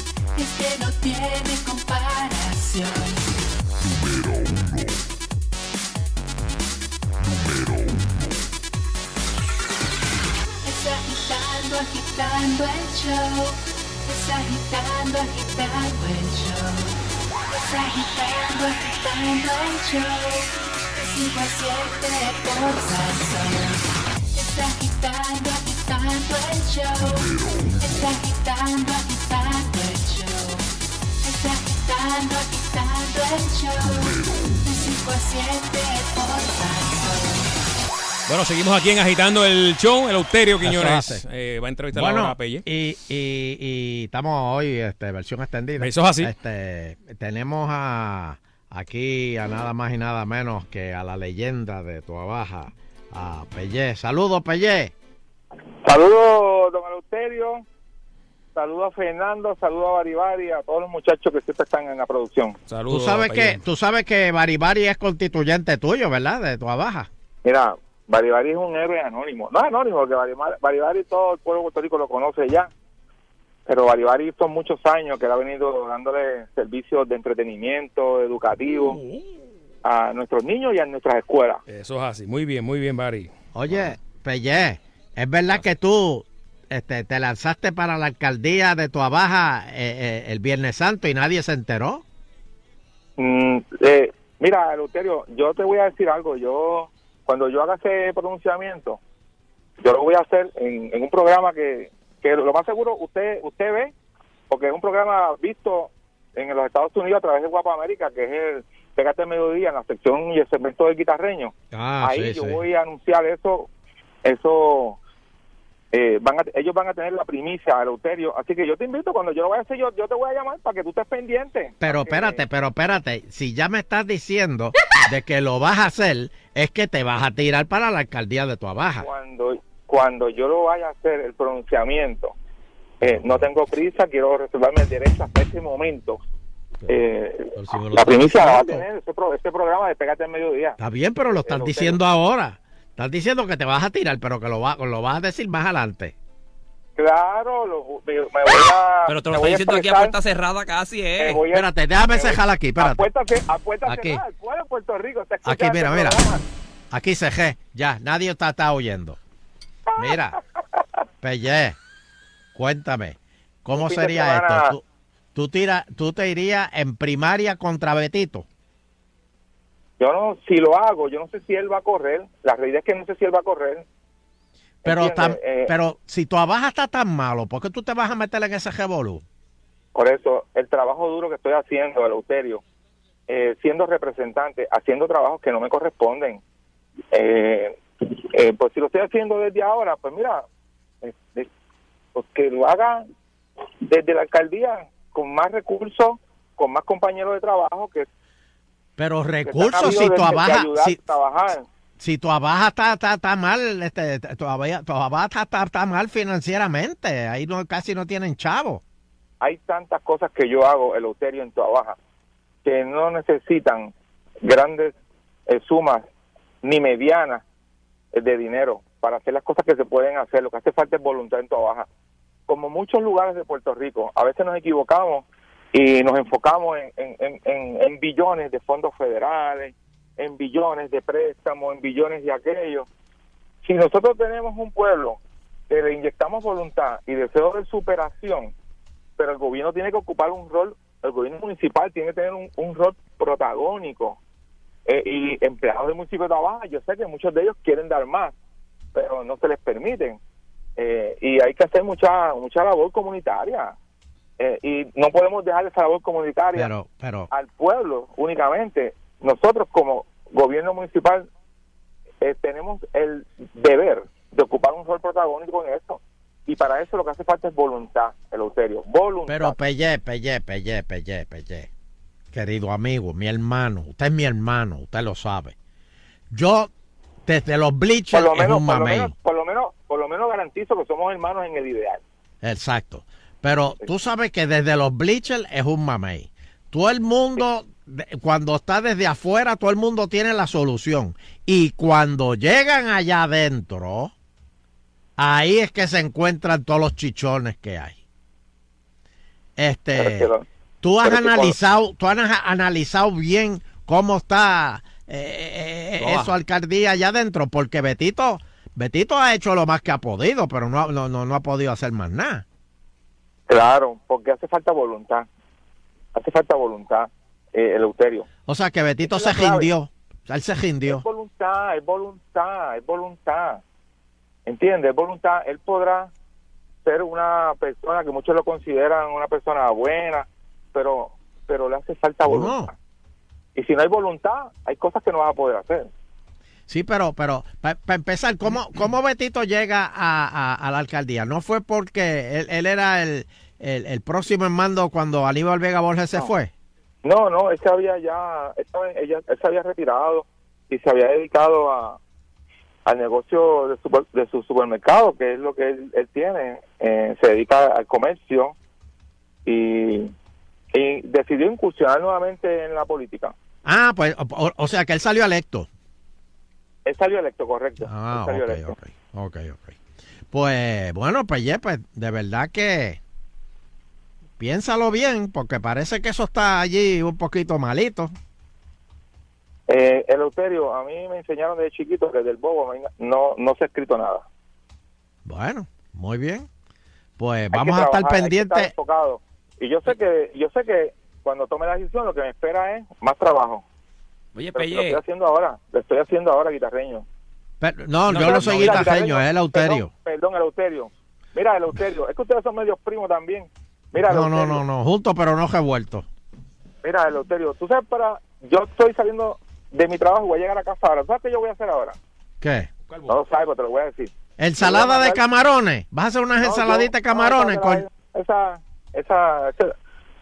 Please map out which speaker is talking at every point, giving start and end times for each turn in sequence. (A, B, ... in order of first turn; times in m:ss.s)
0:00.4-0:03.4 A
0:10.6-0:17.0 A
0:17.5-0:30.7 A
0:31.2-0:37.5 A
0:38.3-0:42.6 B
0:40.6-0:41.2 C
0:41.9-0:54.9 C
0:45.8-0:46.3 B
0:55.8-0:57.6 D
0:58.6-1:02.6 D
1:02.7-1:03.6 B
1:02.9-1:07.1 C
1:07.4-1:12.7 D
1:13.7-1:19.0 D
1:19.8-1:21.6 D
1:21.7-1:23.3 B
1:23.6-1:32.0 C
1:33.2-1:39.0 D
1:39.8-1:43.9 D
1:44.5-1:53.7 D
1:51.7-1:52.6 C
1:54.2-1:55.0 D
1:55.9-2:02.4 D
2:01.8-2:09.1 C
2:09.0-2:12.3 D
2:13.0-2:13.5 C
2:13.0-2:16.2 D
2:16.9-2:20.8 D
2:17.5-2:18.8 C
2:20.8-2:26.1 C
2:21.3-2:22.0 D
2:27.0-2:30.2 D
2:29.1-2:31.4 E
2:31.2-2:36.4 D
2:31.5-2:33.1 C
2:33.9-2:34.2 C
2:35.4-2:36.2 C
2:36.9-2:39.2 C
2:40.0-2:40.3 C
2:41.2-2:41.8 C
2:42.6-2:44.8 C
2:43.7-2:44.7 D
2:45.4-2:48.5 C
2:50.0-2:53.8 D
2:54.8-2:59.2 C
2:54.8-2:55.7 D
3:00.0-3:02.6 D
3:03.3-3:06.4 D
3:07.1-3:10.4 D
3:11.0-3:11.5 D
3:12.2-3:13.1 D
3:13.8-3:18.1 D
3:19.0-3:21.0 C
3:19.4-3:21.6 D
3:22.0-3:28.8 C
3:29.4-3:32.0 D
3:32.6-3:33.9 D
3:34.4-3:34.9 D
3:35.5-3:36.0 D
3:36.6-3:37.4 D
3:38.1-3:41.9 D
3:42.5-3:52.9 D
3:53.6-3:55.2 D
3:55.7-3:58.5 D
3:59.2-4:04.2 D
4:04.9-4:08.3 D
4:09.0-4:10.2 D
4:10.8-4:13.7 D
4:14.4-4:16.7 D
4:16.6-4:17.3 C
4:17.3-4:21.3 D
4:22.2-4:29.6 D
4:29.3-4:31.7 C
4:32.3-4:35.6 C
4:36.3-4:36.7 C
4:37.3-4:39.1 C
4:38.1-4:42.0 D
4:42.4-4:54.1 C
4:55.2-4:58.0 C
4:59.6-5:00.3 C
5:00.0-5:00.4 D
5:00.8-5:12.4 C
5:01.0-5:01.6 D
5:06.0-5:06.3 E
5:13.5-5:15.3 D
5:16.2-5:18.3 D
5:18.5-5:21.0 C
5:19.0-5:19.7 D
5:20.9-5:23.6 D
5:24.5-5:26.1 D
5:26.8-5:32.7 D
5:32.3-5:32.7 C
5:33.6-5:35.9 D
5:36.7-5:46.5 C
5:47.0-5:52.0 D
5:52.9-5:58.6 D
5:59.5-6:00.1 D
6:00.7-6:03.3 D
6:03.6-6:05.7 C
6:06.9-6:08.8 D
6:07.8-6:09.8 C
6:10.3-6:13.0 C
6:14.4-6:18.1 C
6:19.7-6:24.2 D
6:25.2-6:26.5 C
6:27.2-6:28.7 C
6:27.5-6:33.6 D
6:34.4-6:35.0 E
6:34.6-6:37.0 D
6:37.6-6:39.9 C
6:38.1-6:39.0 E
6:38.1-6:44.6 D
6:44.0-6:46.1 C
6:46.8-6:52.0 D
6:52.4-6:52.7 C
6:53.1-6:55.2 D
6:54.4-6:57.8 C
6:56.4-6:59.7 D